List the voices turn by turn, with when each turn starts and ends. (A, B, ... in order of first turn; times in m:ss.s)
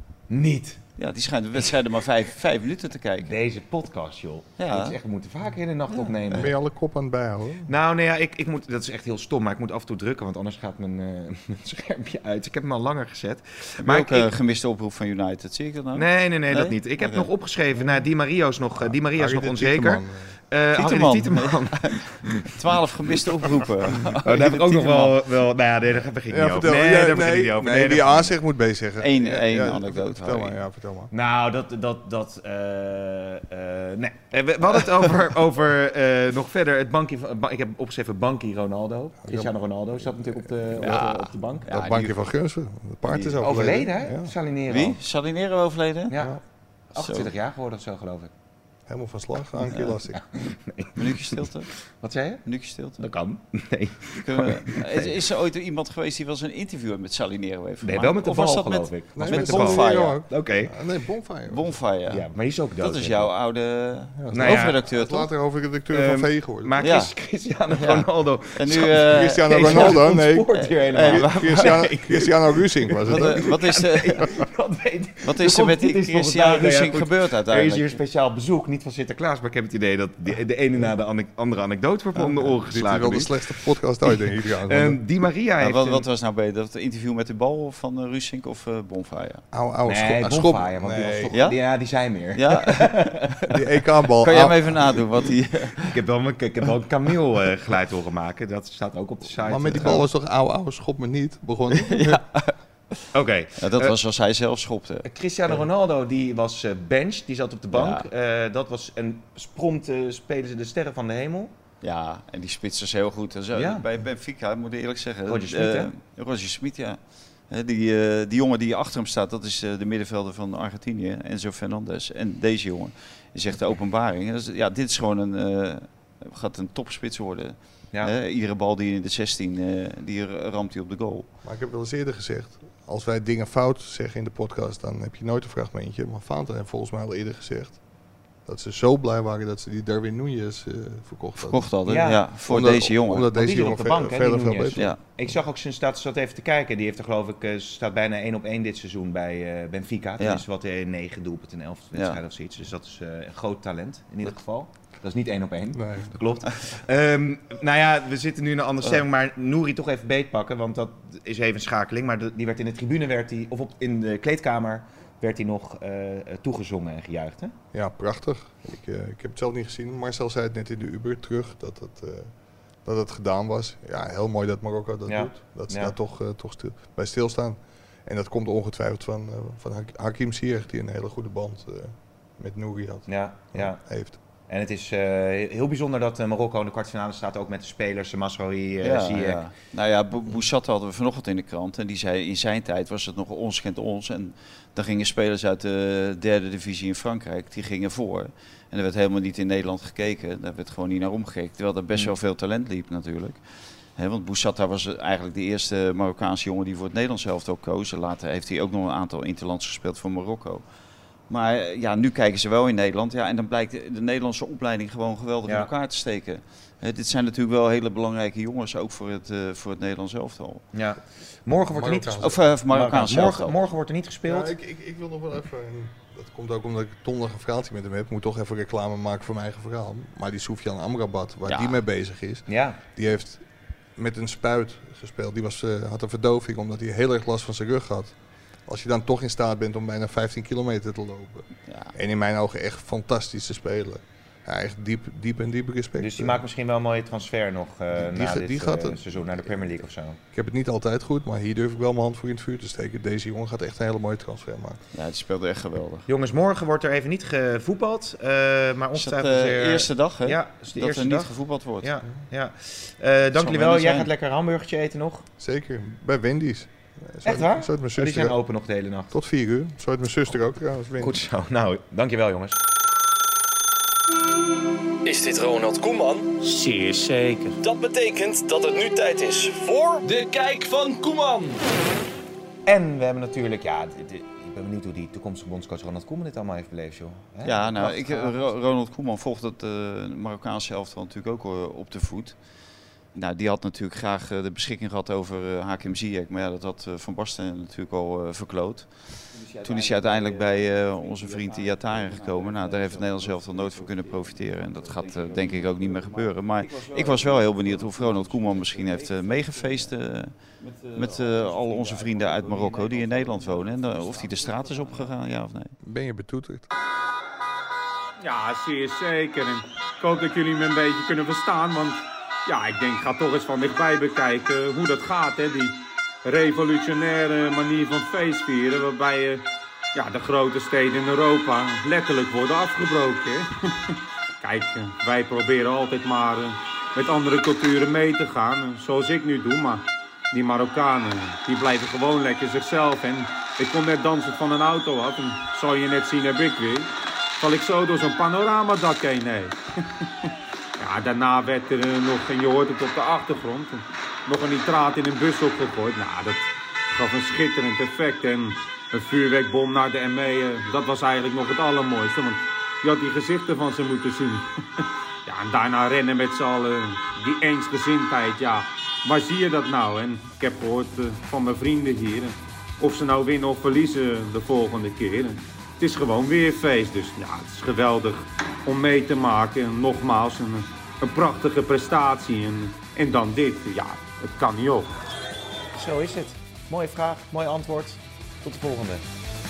0:00.3-0:00.8 A
0:01.0-0:03.3 B
0:03.2-0:06.5 A
0:04.6-0:05.0 B
0:06.3-0:07.7 C
0:07.7-0:14.3 A
0:13.8-0:17.3 B
0:15.9-0:22.5 A
0:18.9-0:20.3 C
0:20.8-0:25.2 B
0:24.2-0:28.3 A
0:26.3-0:31.1 C
0:29.0-0:30.6 B
0:31.1-0:41.7 A
0:39.2-0:39.5 C
0:40.7-0:41.0 C
0:40.8-0:42.2 B
0:41.7-0:44.3 C
0:43.1-0:45.0 A
0:44.7-0:46.2 B
0:46.1-0:46.4 A
0:46.9-0:48.3 A
0:47.0-0:47.3 B
0:48.9-0:50.2 C
0:49.7-0:50.0 B
0:50.1-0:52.4 A
0:51.0-0:51.7 B
0:52.4-0:53.0 B
0:53.0-0:55.1 A
0:54.2-1:00.2 B
0:57.8-1:00.7 A
0:59.2-1:01.7 C
1:01.5-1:02.3 B
1:02.1-1:03.3 A
1:02.8-1:05.3 B
1:04.2-1:06.7 C
1:04.3-1:04.8 A
1:05.9-1:23.3 A
1:06.8-1:07.1 B
1:07.7-1:11.9 B
1:09.0-1:13.4 C
1:13.1-1:14.3 B
1:15.2-1:18.0 B
1:22.6-1:25.0 C
1:24.0-1:26.0 A
1:25.6-1:29.4 B
1:29.5-1:31.4 C
1:29.8-1:33.3 A
1:31.3-1:31.6 B
1:32.3-1:33.6 B
1:33.5-1:35.0 C
1:34.2-1:36.0 B
1:35.8-1:40.0 A
1:39.4-1:42.2 C
1:41.7-1:43.0 B
1:43.1-1:43.9 A
1:43.6-1:45.0 B
1:45.0-1:51.5 A
1:47.7-1:48.0 B
1:51.8-1:57.0 B
1:53.5-1:53.8 A
1:55.2-1:55.9 A
1:57.5-2:11.3 B
2:11.4-2:17.8 C
2:18.4-2:21.7 C
2:21.4-2:23.4 B
2:21.8-2:22.2 A
2:22.4-2:24.8 C
2:23.3-2:47.5 A
2:35.7-2:36.1 C
2:47.7-2:52.3 C
2:52.8-3:04.2 C
2:55.1-2:55.9 A
3:03.1-3:03.8 A
3:04.5-3:09.4 A
3:08.8-3:23.4 B
3:24.0-3:30.6 B
3:31.3-3:40.6 B
3:40.7-3:44.5 A
3:41.7-3:42.4 C
3:42.2-3:43.6 B
3:44.3-3:53.4 C
3:51.5-3:51.8 B
3:52.5-3:52.8 A
3:54.0-3:58.1 C
3:58.7-4:06.4 C
4:01.7-4:01.9 B
4:06.0-4:10.2 A
4:07.9-4:09.0 C
4:10.3-4:14.8 C
4:14.9-4:16.1 B
4:16.1-4:25.3 A
4:19.0-4:21.9 B
4:23.3-4:24.1 B
4:25.4-4:28.4 C
4:27.2-4:29.1 A
4:29.1-4:31.2 C
4:31.0-4:32.6 A
4:35.0-4:36.3 D
4:36.4-4:37.6 E
4:37.6-4:41.6 D
4:42.6-4:48.5 A
4:47.4-4:52.4 B
4:53.1-5:15.7 B
5:11.6-5:12.7 A
5:13.6-5:14.2 A
5:15.8-5:16.7 C
5:18.2-5:49.6 E
5:50.2-6:24.9 E
6:25.7-6:29.0 A